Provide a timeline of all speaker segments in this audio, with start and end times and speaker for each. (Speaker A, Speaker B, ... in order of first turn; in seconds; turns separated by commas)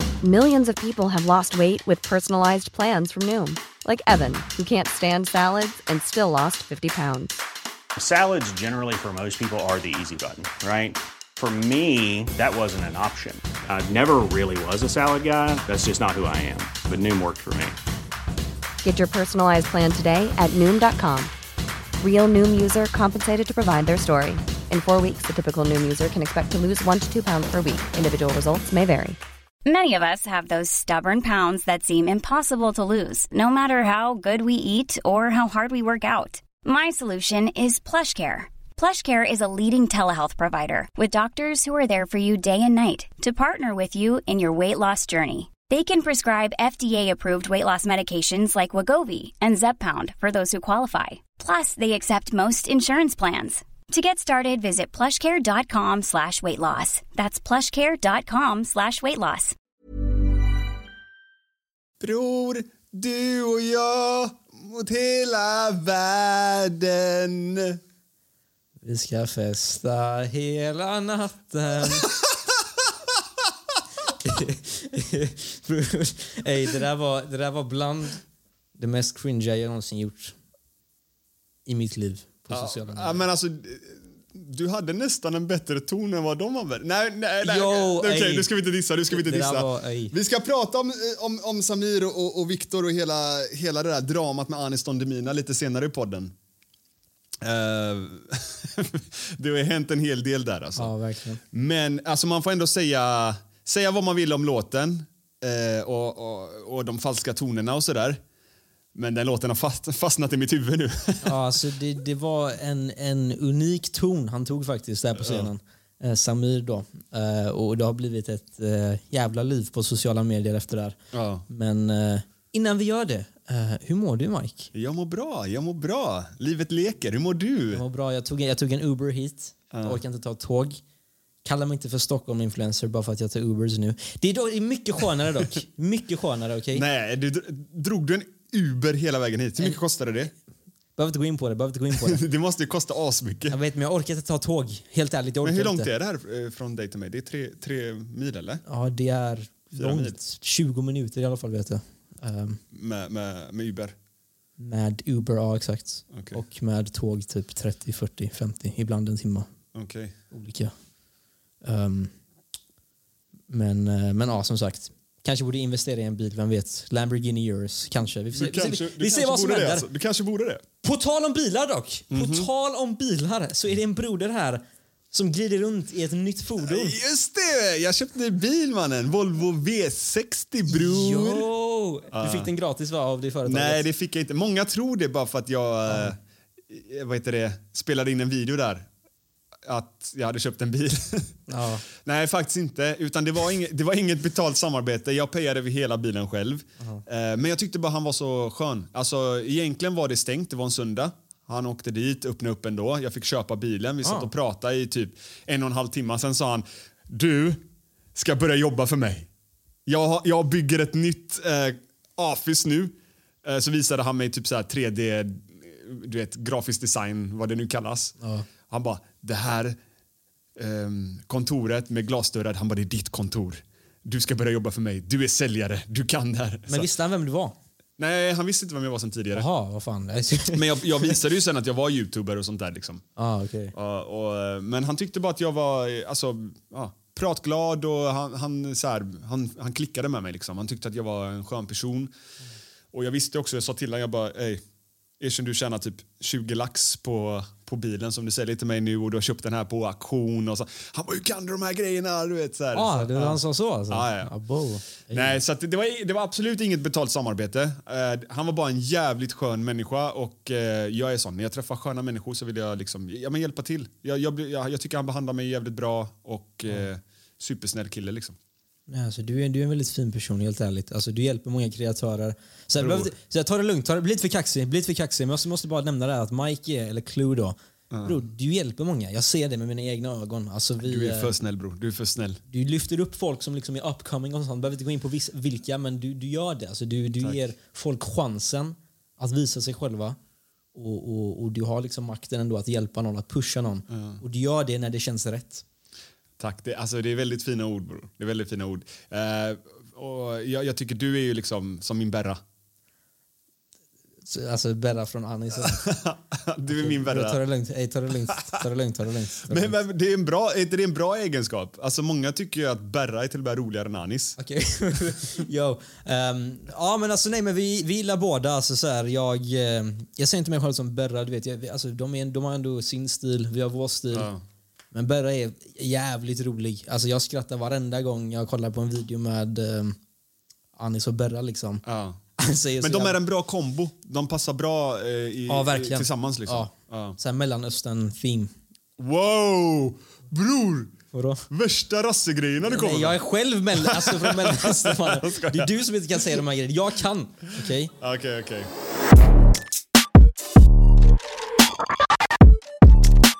Speaker A: 0.2-7.3, Speaker B: 8.0-17.8, Speaker A: 18.8-21.3, Speaker A: 22.0-29.2, Speaker C: 29.6-59.5, Speaker D: 62.0-67.8, Speaker E: 68.8-72.1, Speaker D: 72.2-72.9, Speaker E: 74.2-78.2, Speaker E: 78.8-80.3, Speaker E: 81.7-83.2, Speaker D: 82.5-96.3, Speaker E: 87.4-88.5, Speaker E: 89.1-90.1, Speaker D: 97.4-100.9, Speaker E: 100.8-101.4, Speaker D: 101.5-108.2, Speaker D: 108.9-111.4, Speaker E: 111.2-121.0, Speaker D: 115.2-115.5, Speaker D: 121.1-121.4, Speaker E: 121.5-124.7, Speaker D: 124.7-127.8, Speaker E: 127.7-130.8, Speaker D: 129.7-130.0, Speaker E: 131.4-136.8, Speaker D: 136.7-140.3, Speaker E: 141.0-142.2, Speaker D: 141.9-143.6, Speaker E: 143.5-145.9, Speaker D: 145.4-148.6, Speaker E: 148.7-152.6, Speaker D: 149.7-150.2, Speaker D: 152.7-153.9, Speaker E: 154.6-159.5, Speaker D: 156.1-156.4, Speaker D: 159.7-160.1, Speaker E: 160.3-160.7, Speaker E: 161.6-162.1, Speaker E: 163.5-169.9, Speaker D: 168.3-170.6, Speaker E: 170.8-177.0, Speaker D: 172.1-172.5, Speaker D: 176.6-181.5, Speaker E: 180.7-183.8, Speaker D: 182.1-182.5, Speaker D: 183.4-186.2, Speaker D: 186.7-188.9, Speaker D: 189.6-209.3, Speaker E: 191.5-191.8, Speaker E: 204.0-204.3, Speaker D: 209.8-218.2, Speaker E: 218.2-218.5, Speaker D: 218.7-219.8, Speaker D: 220.6-226.9, Speaker E: 226.7-227.6, Speaker D: 228.0-229.4, Speaker E: 229.3-231.2, Speaker D: 230.5-233.0, Speaker E: 233.2-233.7, Speaker D: 233.7-242.1, Speaker D: 242.9-244.6, Speaker D: 245.2-254.3, Speaker E: 252.7-255.4, Speaker D: 255.0-268.4, Speaker E: 268.9-281.3, Speaker D: 272.8-273.1, Speaker D: 277.9-278.2, Speaker D: 280.8-282.4, Speaker E: 282.5-290.2, Speaker E: 290.7-295.6, Speaker D: 293.9-294.2, Speaker D: 296.4-302.4, Speaker E: 304.2-305.8, Speaker D: 305.6-307.4, Speaker E: 306.7-309.8, Speaker D: 309.5-314.4, Speaker E: 314.4-324.3, Speaker D: 324.1-324.4, Speaker E: 324.9-330.0, Speaker E: 330.8-331.8, Speaker D: 331.8-332.2, Speaker E: 332.4-333.2, Speaker D: 332.8-337.2, Speaker E: 335.5-338.5, Speaker D: 339.0-340.9, Speaker E: 341.1-341.4, Speaker D: 341.5-343.2, Speaker E: 342.6-347.9, Speaker D: 343.8-345.7, Speaker D: 348.0-348.7